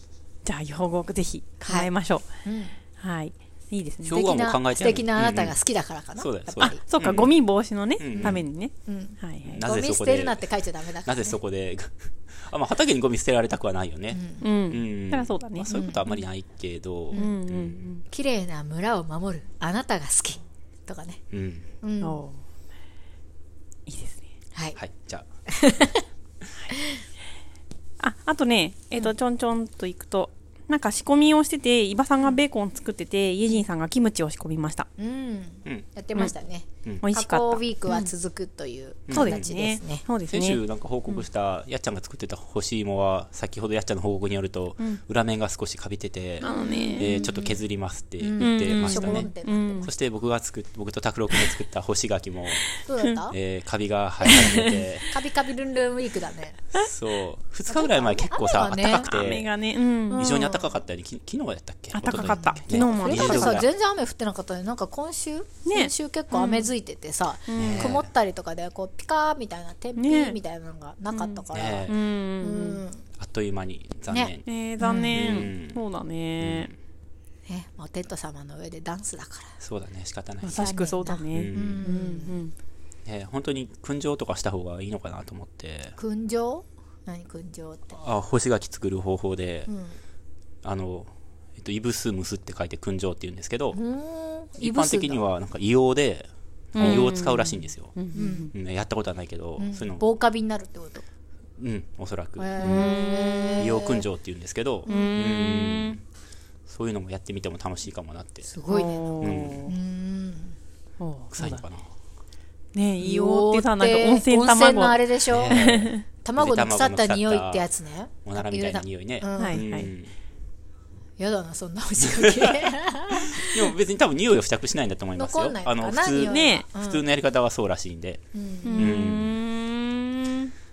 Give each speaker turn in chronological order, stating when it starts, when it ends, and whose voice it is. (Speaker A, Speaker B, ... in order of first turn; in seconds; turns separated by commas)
Speaker A: 0.4-2.2, Speaker B: 1.6-1.9, Speaker B: 2.4-2.8, Speaker A: 3.0-4.2, Speaker C: 4.0-5.6, Speaker B: 4.0-6.8, Speaker C: 6.2-7.3, Speaker A: 6.6-9.6, Speaker C: 8.0-8.4, Speaker B: 8.2-11.4, Speaker C: 9.4-10.4, Speaker C: 11.0-17.8, Speaker B: 14.1-14.4, Speaker A: 14.4-16.2, Speaker B: 15.7-16.0, Speaker A: 17.1-18.0, Speaker B: 18.1-21.2, Speaker C: 21.3-21.7, Speaker B: 21.8-22.2, Speaker A: 22.0-22.4, Speaker A: 23.9-24.2, Speaker C: 24.8-25.3, Speaker B: 25.5-26.1, Speaker B: 26.7-27.0, Speaker A: 28.0-34.9, Speaker B: 35.0-40.0, Speaker A: 37.0-38.1, Speaker C: 39.1-39.5, Speaker A: 39.1-41.2, Speaker C: 40.3-52.7, Speaker A: 46.4-47.2, Speaker B: 46.4-47.6, Speaker A: 48.2-49.9, Speaker B: 48.5-49.9, Speaker A: 52.7-53.3, Speaker B: 52.9-53.4, Speaker C: 53.3-55.1, Speaker A: 54.2-54.9, Speaker B: 55.1-56.6, Speaker C: 56.7-59.5, Speaker B: 57.7-59.2, Speaker A: 58.8-60.4, Speaker B: 60.1-60.8, Speaker C: 60.1-63.7, Speaker A: 61.9-63.6, Speaker B: 62.7-73.0, Speaker A: 65.7-66.7, Speaker A: 67.5-68.0, Speaker C: 67.5-68.1, Speaker A: 70.0-70.4, Speaker A: 71.1-72.8, Speaker C: 71.5-72.0, Speaker C: 73.2-74.5, Speaker B: 74.1-75.2, Speaker A: 74.5-76.7, Speaker C: 75.1-75.8, Speaker C: 76.4-76.7, Speaker B: 77.5-79.5, Speaker C: 79.6-80.7, Speaker A: 80.4-82.5, Speaker B: 80.5-82.4, Speaker C: 81.3-81.9, Speaker C: 83.1-86.0, Speaker B: 86.0-88.0, Speaker C: 88.0-89.7, Speaker B: 89.7-90.0, Speaker C: 90.6-93.8, Speaker B: 93.7-95.2, Speaker C: 94.6-98.0, Speaker A: 96.8-98.5, Speaker B: 96.8-97.1, Speaker B: 98.1-98.5, Speaker C: 98.5-100.0, Speaker B: 99.6-101.0, Speaker C: 101.6-103.0, Speaker B: 102.4-104.0, Speaker A: 102.6-103.7, Speaker C: 103.6-106.0, Speaker A: 104.9-106.0, Speaker C: 106.7-108.5, Speaker B: 108.4-110.6, Speaker A: 108.7-109.7, Speaker C: 109.2-109.7, Speaker A: 111.0-111.6, Speaker C: 111.3-111.9, Speaker A: 112.7-116.0, Speaker B: 113.0-115.7, Speaker C: 115.3-117.7, Speaker B: 116.2-119.6, Speaker C: 118.2-120.1, Speaker A: 119.4-119.9, Speaker B: 121.2-123.7, Speaker C: 122.2-122.7, Speaker C: 123.4-128.2, Speaker B: 125.2-127.0, Speaker A: 126.2-126.7, Speaker B: 128.3-128.9, Speaker A: 128.6-130.5, Speaker C: 128.8-129.4